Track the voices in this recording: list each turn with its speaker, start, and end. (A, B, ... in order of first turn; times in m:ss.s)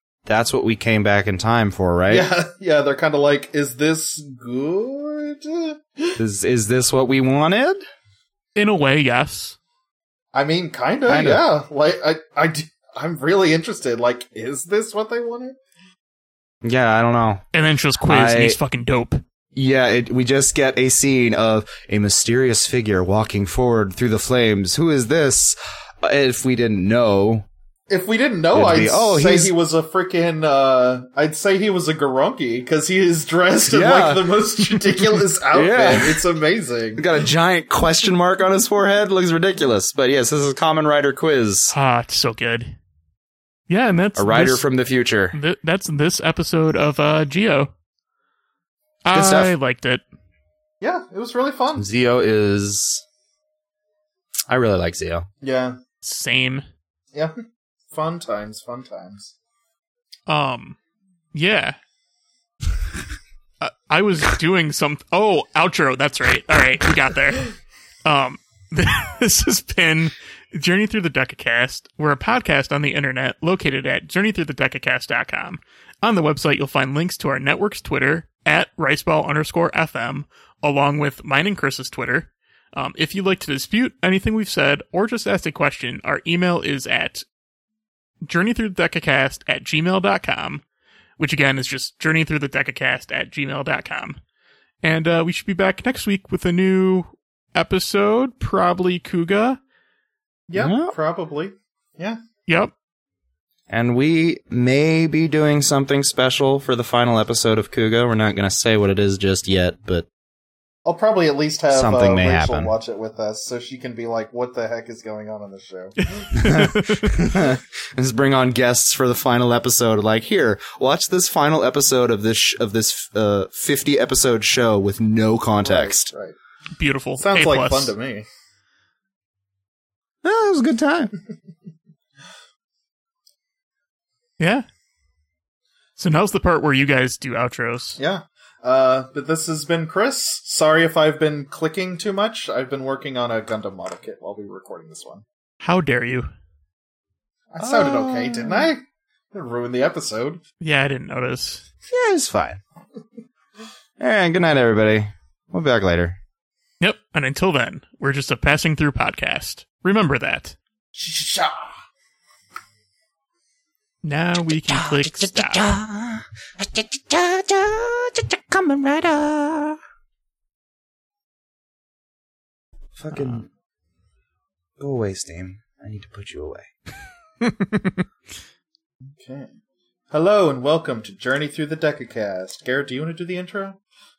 0:00.3-0:02.3 A
0:02.1-0:06.2 B
0:06.2-0:07.8 A
0:08.6-0:09.6 C
0:10.3-0:15.6 B
0:11.1-0:11.4 A
0:16.6-0:17.4 A
0:17.5-0:19.2 C
0:18.0-0:18.6 A
0:19.6-0:27.5 A
0:27.9-0:37.0 B
0:28.5-0:29.5 A
0:33.7-0:36.2 A
0:37.0-0:41.8 A
0:41.7-0:42.8 C
0:43.7-0:44.6 C
0:44.2-0:45.4 A
0:45.3-0:47.7 C
0:49.0-0:50.0 C
0:49.1-0:49.5 A
0:50.8-0:51.9 B
0:51.8-0:53.0 A
0:54.5-0:55.3 A
0:55.4-0:55.8 B
0:56.0-0:56.6 C
0:57.9-0:59.3 B
1:00.3-1:00.8 C
1:01.3-1:01.8 C
1:03.6-1:07.5 C
1:08.0-1:27.2 C
1:28.3-1:30.6 C
1:31.2-1:34.2 C
1:34.8-1:39.6 C
1:40.5-1:42.2 B
1:40.6-1:40.9 A
1:42.5-1:42.7 C
1:43.7-1:50.1 A
1:50.9-1:56.3 B
1:51.7-1:52.7 A
1:56.0-1:57.2 C
1:56.4-2:06.1 A
2:05.6-2:06.4 B
2:06.8-2:07.9 C
2:07.2-2:08.2 B
2:10.2-2:11.1 A
2:14.4-2:14.6 C
2:16.0-2:18.0 C
2:18.0-2:25.2 B
2:25.6-2:26.3 C
2:27.5-2:28.8 B
2:27.6-2:28.7 A
2:29.3-2:30.4 B
2:30.6-2:31.6 C
2:31.9-2:32.6 A
2:34.0-2:36.2 A
2:36.8-2:40.6 C
2:41.0-2:41.7 B
2:44.0-2:45.6 C
2:44.7-2:49.8 A
2:53.0-2:53.5 A
2:54.8-2:56.7 A
2:57.4-2:58.0 C
2:59.2-2:59.5 B
3:00.1-3:03.8 B